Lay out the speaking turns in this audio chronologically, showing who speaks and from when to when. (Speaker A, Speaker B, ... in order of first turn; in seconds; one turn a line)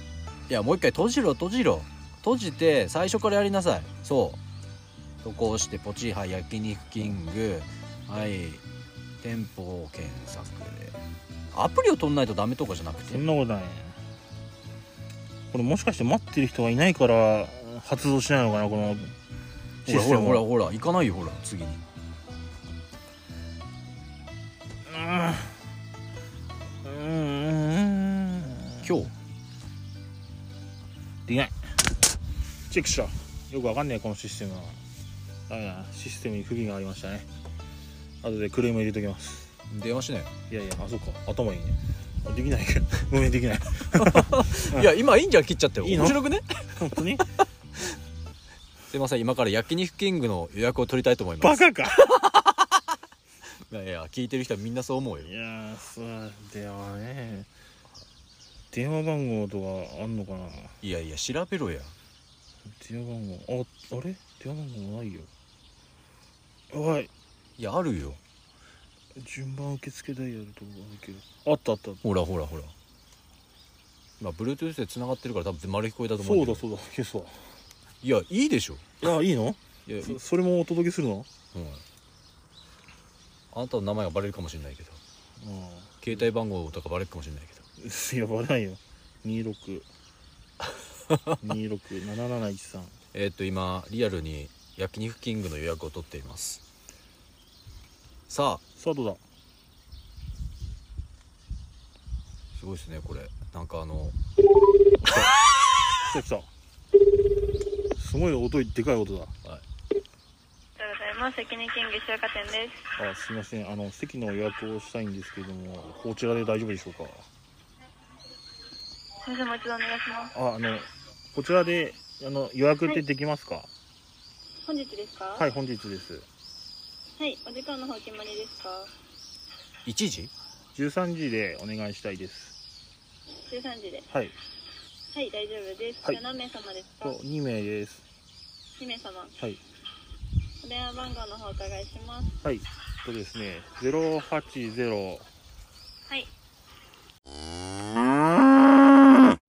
Speaker A: 0.5-4.4
Speaker A: 5.2-8.6
Speaker A: 9.2-11.0
Speaker A: 11.5-13.2
Speaker B: 13.1-14.0
Speaker B: 15.5-19.1
Speaker A: 19.8-21.8
Speaker B: 19.9-20.4
Speaker B: 24.9-25.6
Speaker B: 26.8-28.9
Speaker A: 28.8-29.1
Speaker B: 31.3-31.6
Speaker B: 32.7-34.8
Speaker B: 35.5-37.3
Speaker B: 38.2-39.5
Speaker A: 39.7-40.3
Speaker B: 40.5-44.9
Speaker A: 43.9-47.0
Speaker B: 45.8-46.2
Speaker B: 46.8-47.3
Speaker A: 48.9-53.0
Speaker B: 51.4-52.1
Speaker A: 53.7-55.3
Speaker B: 55.2-57.5
Speaker B: 58.7-60.8
Speaker A: 60.8-61.9
Speaker B: 62.8-65.3
Speaker B: 66.7-67.1
Speaker A: 67.6-68.2
Speaker B: 69.1-72.0
Speaker A: 72.0-72.7
Speaker A: 74.2-76.6
Speaker B: 76.2-77.4
Speaker A: 78.0-78.8
Speaker B: 79.0-81.3
Speaker A: 79.8-80.2
Speaker A: 81.5-81.8
Speaker A: 83.5-85.0
Speaker B: 85.4-86.1
Speaker A: 86.0-87.7
Speaker B: 87.8-89.9
Speaker A: 91.1-91.3
Speaker B: 91.4-92.9
Speaker A: 93.1-96.6
Speaker A: 98.3-98.6
Speaker B: 98.8-99.2
Speaker A: 102.5-104.2
Speaker B: 105.0-105.3
Speaker B: 106.0-106.5
Speaker B: 108.0-109.3
Speaker C: 110.8-112.8
Speaker B: 113.0-117.2
Speaker C: 119.2-120.3
Speaker B: 120.3-123.7
Speaker C: 124.7-125.5
Speaker B: 125.3-126.2
Speaker C: 127.2-128.9
Speaker A: 129.8-130.3
Speaker B: 130.7-132.5
Speaker C: 133.4-134.1
Speaker C: 135.1-137.1
Speaker B: 137.0-138.0
Speaker C: 138.8-139.3
Speaker C: 140.6-142.4
Speaker B: 142.4-145.3